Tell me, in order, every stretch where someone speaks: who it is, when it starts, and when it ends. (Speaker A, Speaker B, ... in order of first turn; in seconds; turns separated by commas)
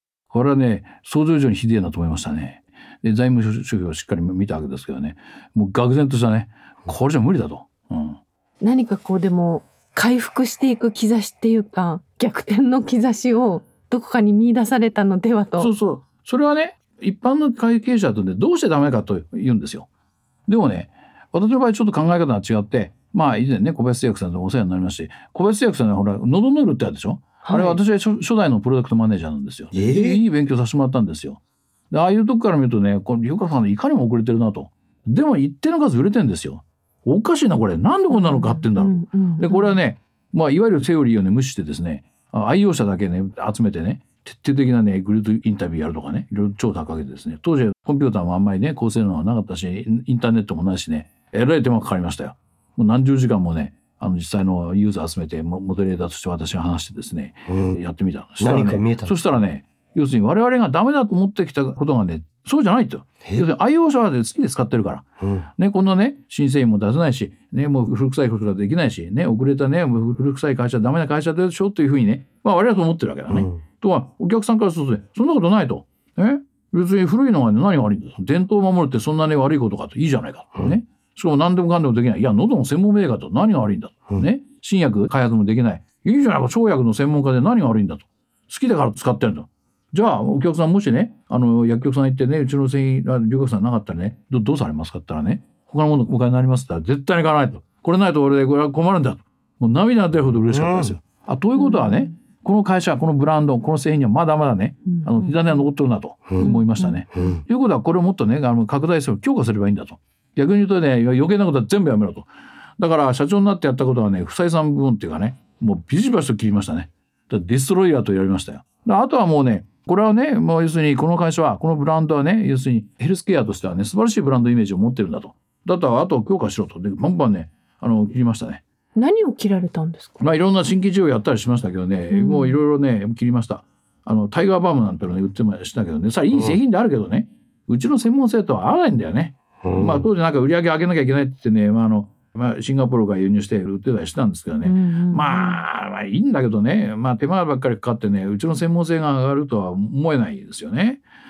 Speaker A: 0.3-8.2, Speaker B: 8.6-15.7, Speaker A: 15.6-19.9, Speaker A: 20.5-31.4, Speaker B: 27.4-27.8, Speaker C: 29.7-30.2, Speaker A: 31.9-65.0, Speaker B: 38.1-39.8, Speaker C: 57.5-57.8, Speaker C: 58.4-59.3, Speaker C: 65.2-65.5, Speaker A: 65.6-112.3, Speaker C: 73.3-73.6, Speaker C: 100.4-101.0, Speaker B: 101.5-102.1, Speaker B: 104.8-105.6, Speaker B: 106.4-107.3, Speaker C: 107.1-107.4, Speaker A: 112.8-128.6, Speaker B: 128.9-130.1, Speaker A: 130.2-151.0, Speaker B: 132.1-132.6, Speaker C: 136.3-136.6, Speaker C: 139.6-140.1, Speaker B: 144.6-145.6